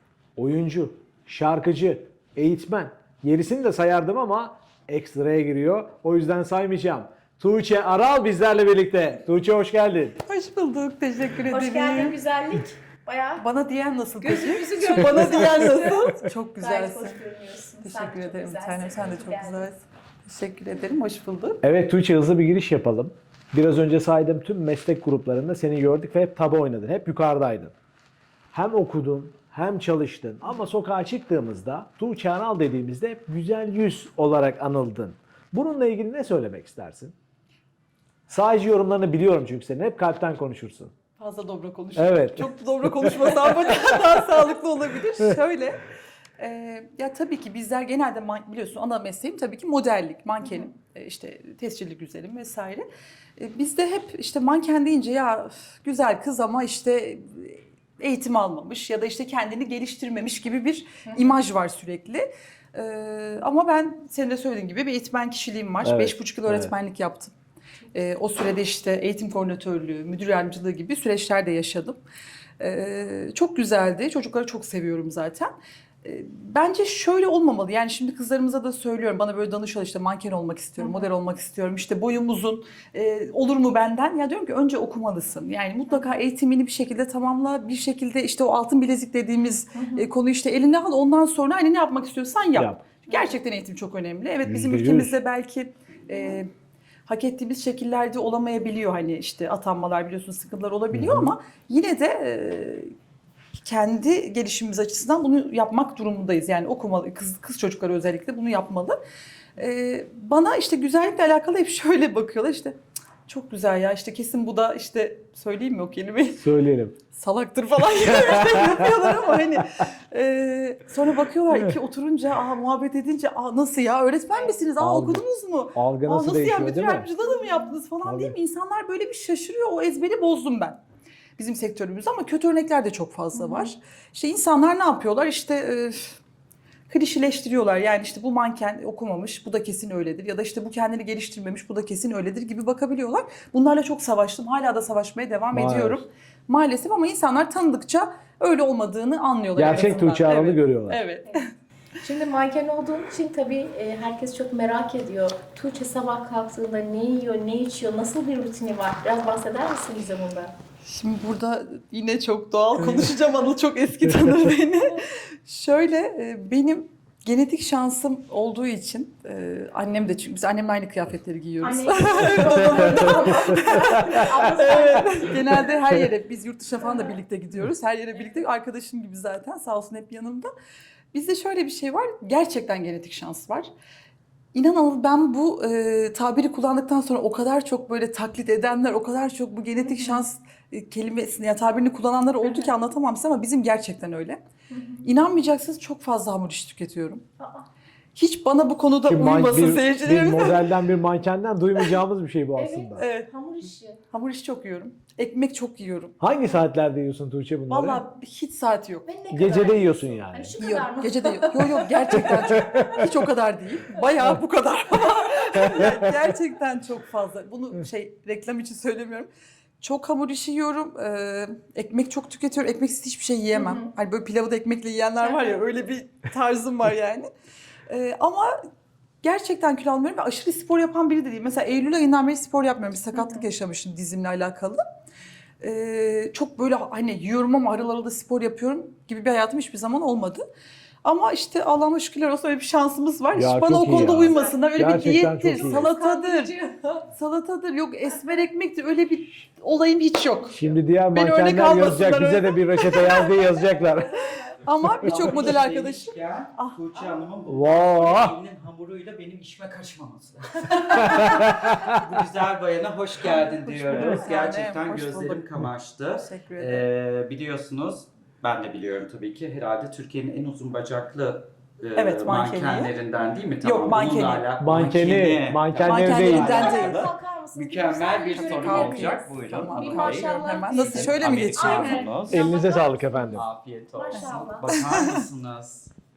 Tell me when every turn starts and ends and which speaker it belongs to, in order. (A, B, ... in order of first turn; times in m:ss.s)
0:00.4-0:10.2 A
0:10.2-0:12.2 B
0:11.5-0:13.4 C
0:13.4-0:17.2 B
0:14.2-0:19.7 C
0:17.8-0:21.6 B
0:21.6-0:27.7 A
0:28.5-0:37.1 A
0:38.3-0:40.9 A
0:41.2-0:45.8 B
0:42.0-0:42.5 A
0:46.4-0:52.8 B
0:53.4-1:07.3 B
1:05.8-1:06.7 A
1:07.9-1:12.0 B
1:12.6-1:15.5 B
1:16.0-1:36.5 B
1:20.8-1:21.1 C
1:29.7-1:30.0 C
1:32.6-1:32.8 A
1:34.4-1:35.1 A
1:37.0-1:42.9 B
1:40.9-1:41.3 A
1:43.6-1:49.0 B
1:49.6-1:56.4 B
1:56.4-1:57.0 A
1:57.1-2:10.8 B
1:58.0-1:58.8 A
2:04.8-2:05.2 A
2:05.7-2:07.1 A
2:07.2-2:07.6 C
2:08.0-2:08.3 A
2:11.4-2:16.2 B
2:13.3-2:13.7 C
2:16.9-2:31.5 B
2:25.5-2:26.0 A
2:29.6-2:31.0 A
2:32.0-2:40.5 C
2:40.8-3:00.5 B
2:51.6-2:55.6 C
2:52.7-2:53.5 A
3:01.1-3:03.7 B
3:04.5-3:14.4 B
3:09.8-3:10.2 C
3:15.0-3:17.2 B
3:17.4-3:17.6 C
3:18.1-3:20.7 B
3:19.1-3:23.0 A
3:22.6-3:24.0 C
3:23.0-3:23.3 B
3:24.1-3:26.2 B
3:26.2-3:28.0 A
3:27.7-3:29.1 B
3:29.0-3:32.9 C
3:29.3-3:30.7 A
3:30.6-3:39.3 B
3:32.2-3:33.1 A
3:39.8-3:47.3 B
3:43.5-3:43.9 C
3:45.2-3:45.6 C
3:47.9-3:48.6 B
3:49.2-3:54.8 B
3:53.1-3:53.4 C
3:55.6-4:00.4 B
4:01.0-4:06.5 B
4:03.3-4:05.9 A
4:04.0-4:04.6 C
4:05.5-4:07.0 C
4:07.1-4:10.6 B
4:10.5-4:14.4 A
4:11.1-4:13.4 B
4:14.2-4:14.5 C
4:14.6-4:17.1 B
4:15.0-4:42.4 D
4:17.5-4:18.4 A
4:21.0-4:22.0 A
4:23.2-4:25.5 B
4:23.9-4:24.2 A
4:26.1-4:26.8 B
4:32.0-4:32.9 B
4:33.6-4:34.4 B
4:34.6-4:36.7 A
4:35.8-4:37.1 B
4:36.1-4:44.7 C
4:38.2-4:42.0 B
4:42.3-4:43.4 A
4:43.3-4:45.9 D
4:44.1-4:45.2 B